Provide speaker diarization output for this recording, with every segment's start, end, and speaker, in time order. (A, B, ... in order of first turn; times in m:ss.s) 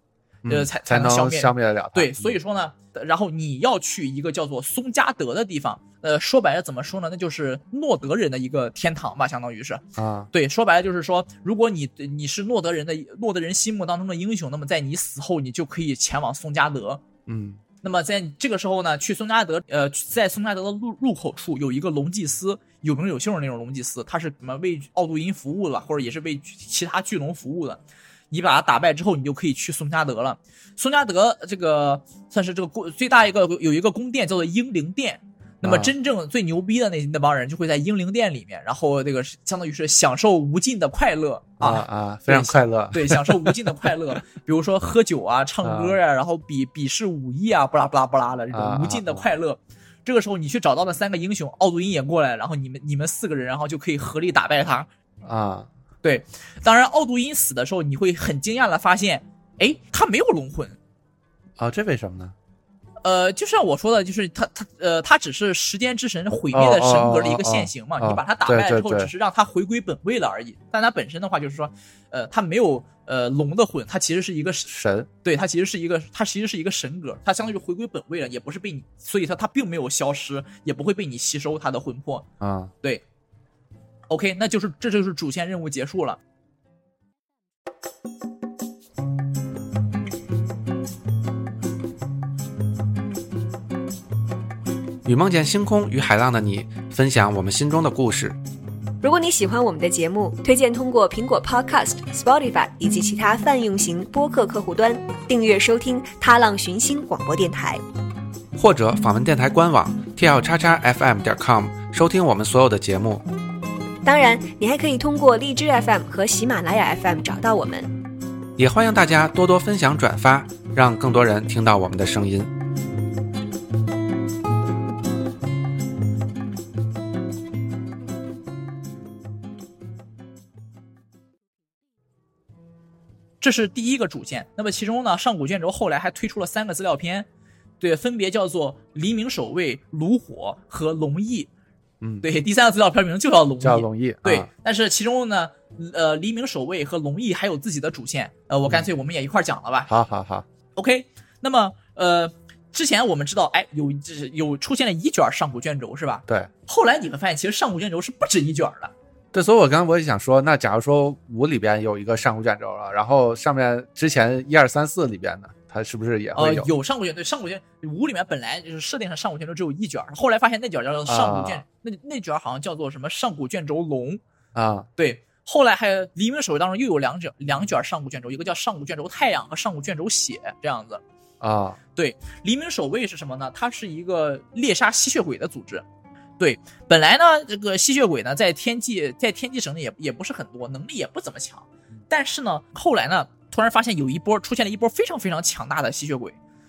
0:00.4-0:02.4 A
0:00.5-0:17.0 B
0:10.0-0:10.3 A
0:17.3-0:17.6 A
0:17.8-0:54.9 B
0:35.6-0:35.9 A
0:41.6-0:43.8 A
0:45.6-0:46.0 A
0:48.5-0:49.3 A
0:55.2-0:55.7 A
0:56.0-1:00.8 B
1:01.6-1:02.3 A
1:03.0-1:14.7 B
1:06.5-1:09.1 A
1:14.7-1:15.1 A
1:15.2-1:22.3 B
1:22.4-1:22.7 A
1:24.1-1:26.2 B
1:35.0-1:38.4 A
1:39.0-1:47.8 C
1:48.6-1:53.2 A
1:54.0-1:57.9 C
1:58.6-2:02.5 A
2:13.4-2:17.3 B
2:17.8-2:21.5 B
2:22.0-2:22.3 A
2:22.2-2:29.9 B
2:23.6-2:24.5 A
2:29.9-2:30.5 A
2:30.8-2:38.9 B
2:39.3-2:46.7 A
2:46.4-2:54.2 B
2:51.1-2:51.6 A
2:54.6-2:54.9 A
2:55.0-3:01.0 B
3:01.4-3:01.8 A
3:02.0-3:05.8 B
3:06.4-3:16.4 B